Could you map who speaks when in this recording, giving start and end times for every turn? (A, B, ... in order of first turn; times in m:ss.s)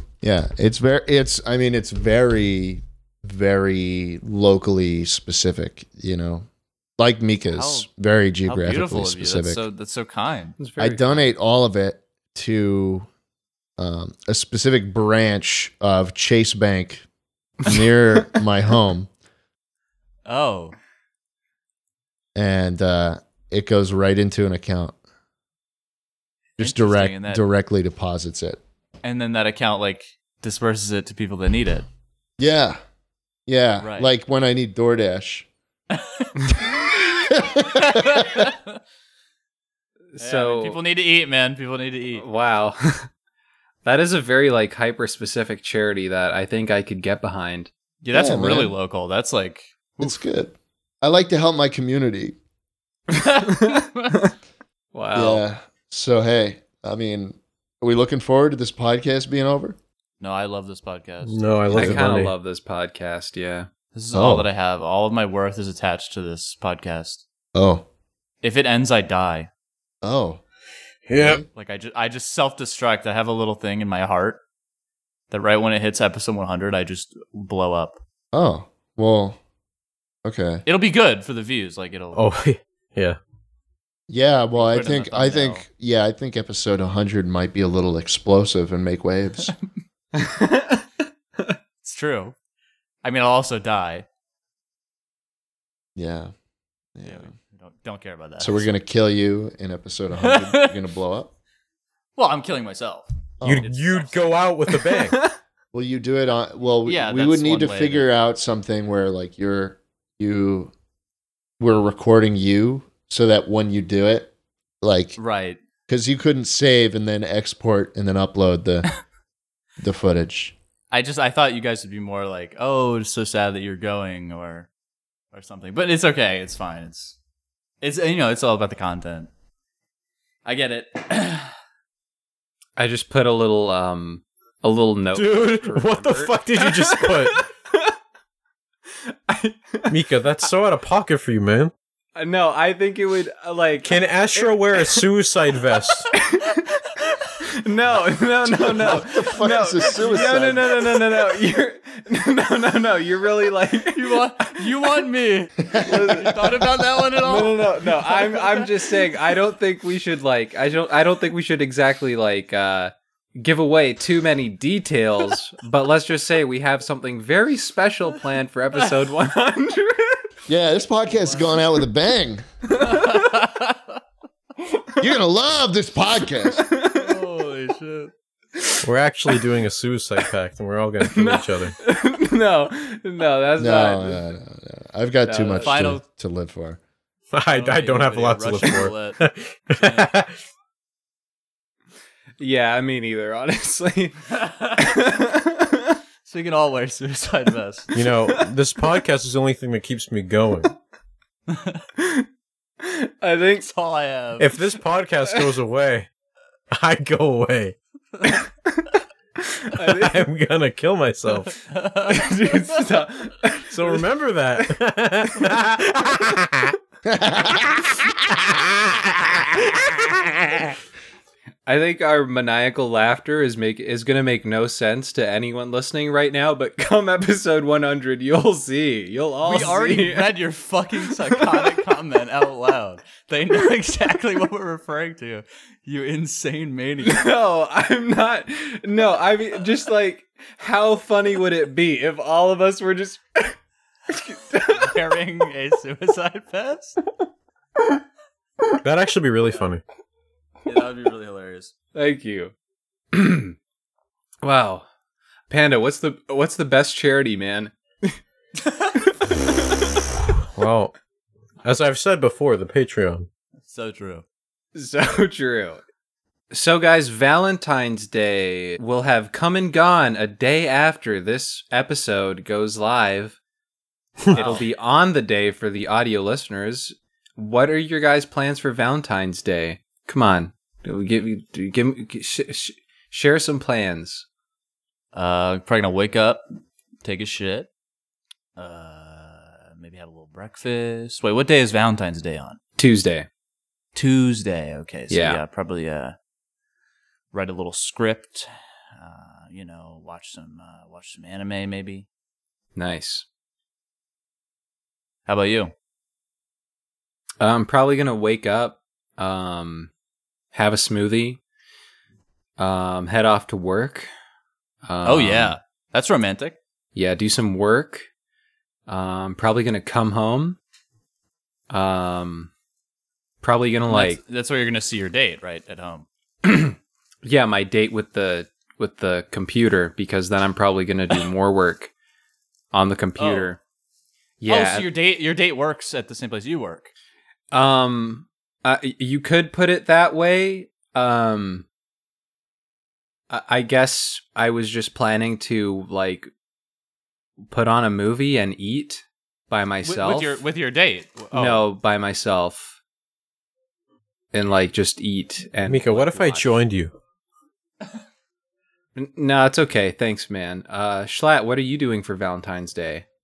0:00.2-0:06.4 A
0:07.0-0:09.6 A
0:07.5-0:07.9 B
0:08.4-0:10.6 B
0:10.6-0:11.3 C
0:10.8-0:13.1 A
0:13.8-0:17.0 A
0:17.6-0:19.1 A
0:20.2-0:20.7 B
0:22.3-0:24.9 A
0:26.6-0:28.6 A
0:26.6-0:27.4 B
0:29.0-0:31.8 B
0:32.4-0:32.8 A
0:33.5-0:35.5 A
0:33.8-0:34.1 B
0:35.9-0:36.4 B
0:37.2-0:38.4 A
0:37.9-0:38.7 B
0:40.1-0:40.8 C
0:40.2-0:42.2 B
0:42.2-0:43.1 C
0:43.8-0:47.7 C
0:48.0-0:50.2 B
0:48.1-0:48.7 A
0:50.0-0:52.4 A
0:53.2-0:54.3 C
0:53.4-0:54.2 B
0:54.9-0:55.4 C
0:55.1-0:59.8 A
1:00.2-1:01.4 B
1:01.2-1:02.3 D
1:01.7-1:02.0 A
1:01.7-1:03.7 C
1:03.9-1:07.2 B
1:04.1-1:04.5 A
1:07.5-1:07.8 A
1:08.4-1:09.5 B
1:10.0-1:10.4 A
1:11.1-1:11.4 D
1:11.2-1:11.4 A
1:11.5-1:14.4 B
1:15.3-1:18.0 B
1:18.3-1:19.4 A
1:20.2-1:20.6 A
1:20.6-1:22.2 B
1:22.1-1:23.2 D
1:24.1-1:29.5 A
1:24.5-1:25.6 B
1:30.1-1:30.9 C
1:31.8-1:32.3 B
1:33.0-1:34.0 B
1:36.0-1:36.3 A
1:37.0-1:37.3 A
1:37.0-1:38.7 B
1:38.4-1:41.3 A
1:40.2-1:40.7 B
1:42.2-1:43.0 B
1:43.4-1:43.7 A
1:43.4-1:45.2 D
1:43.6-1:44.4 B
1:45.7-1:50.7 A
1:46.8-1:48.1 B
1:51.6-1:54.3 A
1:54.8-1:55.2 A
1:55.2-1:55.6 B
1:55.9-1:58.9 A
1:59.8-2:00.5 A
2:00.9-2:04.7 B
2:05.3-2:07.2 B
2:07.8-2:09.3 B
2:10.4-2:11.5 B
2:12.8-2:17.9 C
2:15.1-2:17.4 D
2:19.0-2:19.9 C
2:19.9-2:21.7 D
2:22.2-2:25.0 C
2:23.8-2:26.1 D
2:26.1-2:34.7 C
2:28.4-2:30.7 A
2:33.9-2:39.1 B
2:35.6-2:36.3 A
2:35.8-2:50.3 C
2:50.5-2:52.4 A
2:51.1-2:51.6 B
2:52.7-2:53.4 C
2:52.8-2:53.8 B
2:55.0-2:56.6 A
2:56.5-2:57.2 C
2:56.9-2:58.1 B
2:58.8-3:01.8 D
3:01.0-3:04.2 C
3:03.6-3:06.8 A
3:05.2-3:05.8 C
3:05.6-3:06.0 B
3:07.3-3:10.3 D
3:07.5-3:09.2 B
3:09.8-3:10.2 B
3:12.4-3:14.2 C
3:14.3-3:14.9 B
3:14.8-3:16.0 C
3:16.2-3:17.9 B
3:17.9-3:20.7 D
3:21.5-3:21.8 B
3:22.0-3:22.3 C
3:22.8-3:23.7 C
3:23.6-3:24.5 B
3:24.4-3:26.1 D
3:26.7-3:27.7 D
3:28.2-3:30.2 C
3:29.9-3:31.6 D
3:31.6-3:32.6 B
3:32.0-3:34.0 C
3:33.7-3:36.7 D
3:37.1-3:37.9 A
3:41.6-3:50.4 C
3:49.4-3:57.2 B
3:51.3-3:51.8 C
3:57.0-4:03.6 C
4:04.1-4:05.2 C
4:04.7-4:07.0 B
4:08.8-4:09.8 D
4:10.6-4:11.7 B
4:11.9-4:12.5 C
4:13.1-4:13.6 C
4:14.4-4:14.8 C
4:15.5-4:18.2 C
4:20.5-4:20.9 D
4:21.6-4:23.3 D
4:23.6-4:24.2 B
4:24.7-4:25.8 C
4:26.5-4:33.4 C
4:34.3-4:34.6 B
4:34.3-4:44.2 C
4:45.1-4:46.4 B
4:47.0-4:47.7 B
4:48.6-4:52.6 B
4:52.8-4:53.3 C
4:53.9-4:56.2 B
4:55.1-4:55.4 C
4:57.3-5:02.1 B
5:02.8-5:03.2 C
5:05.2-5:05.7 B
5:07.4-5:09.9 C
5:10.5-5:11.4 C
5:12.6-5:14.1 C
5:14.8-5:15.6 C
5:15.0-5:16.6 B
5:16.9-5:18.1 C
5:18.9-5:20.6 C
5:21.7-5:22.5 C
5:23.4-5:24.2 C
5:23.9-5:26.0 B
5:26.4-5:31.9 C
5:32.7-5:33.6 C
5:33.2-5:33.6 B
5:34.4-5:34.9 C
5:34.5-5:36.9 B
5:37.5-5:41.6 C
5:43.3-5:46.3 C
5:47.5-5:50.4 C
5:49.8-5:51.6 B
5:51.3-5:52.8 C
5:54.3-5:56.6 C
5:55.6-5:56.9 D
5:58.9-6:03.0 C